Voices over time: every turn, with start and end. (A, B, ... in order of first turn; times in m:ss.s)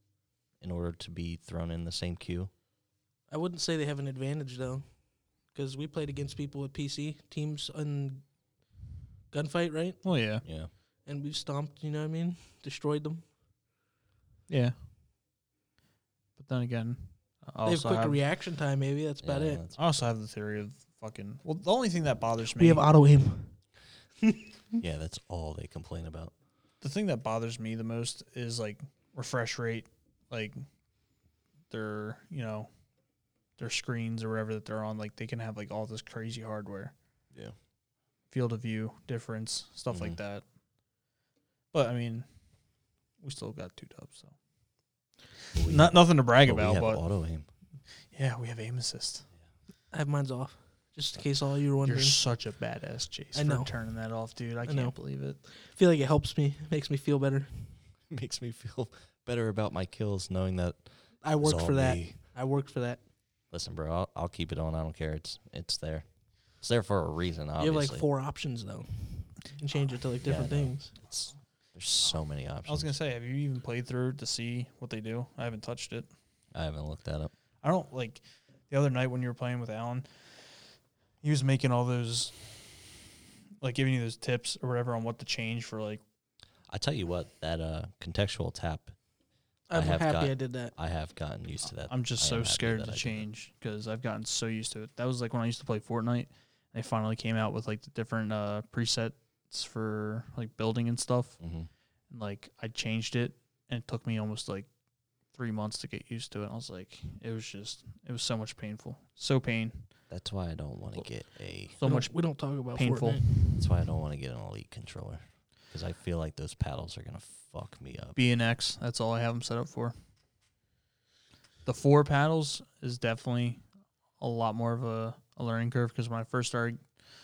0:00.6-0:02.5 A
0:03.3-0:08.2 B
0:09.3-0:10.2 B
0:10.0-0:10.4 C
0:10.4-0:10.7 A
0:11.0-0:13.2 B
0:14.5-0:14.8 C
0:16.4-0:18.2 C
0:17.6-0:19.6 B
0:19.2-0:19.8 A
0:19.7-0:22.8 C
0:22.6-0:23.6 B
0:24.8-0:26.3 A
0:26.8-0:30.6 C
0:31.7-0:32.7 C
0:33.6-0:36.9 C
0:38.3-0:40.4 C
0:39.9-0:40.2 A
0:41.7-0:42.3 C
0:43.2-0:44.3 C
0:45.5-0:47.5 A
0:45.6-0:47.0 C
0:48.1-0:49.3 C
0:49.9-0:52.2 B
0:51.8-0:55.4 C
0:53.3-0:57.8 B
0:58.1-1:02.2 A
1:01.2-1:03.0 B
1:03.5-1:08.0 A
1:07.6-1:11.0 B
1:10.2-1:12.9 A
1:12.6-1:16.1 C
1:16.5-1:17.3 A
1:17.6-1:23.0 C
1:23.6-1:26.0 C
1:26.7-1:28.9 A
1:29.7-1:30.7 B
1:29.7-1:33.3 A
1:31.9-1:41.4 C
1:41.4-1:41.7 A
1:42.1-1:44.7 C
1:45.3-1:49.9 C
1:50.1-1:51.8 A
1:51.7-1:53.2 C
1:51.8-1:53.7 B
1:53.5-1:58.2 A
1:58.2-1:59.9 C
2:01.6-2:03.6 C
2:04.2-2:06.8 C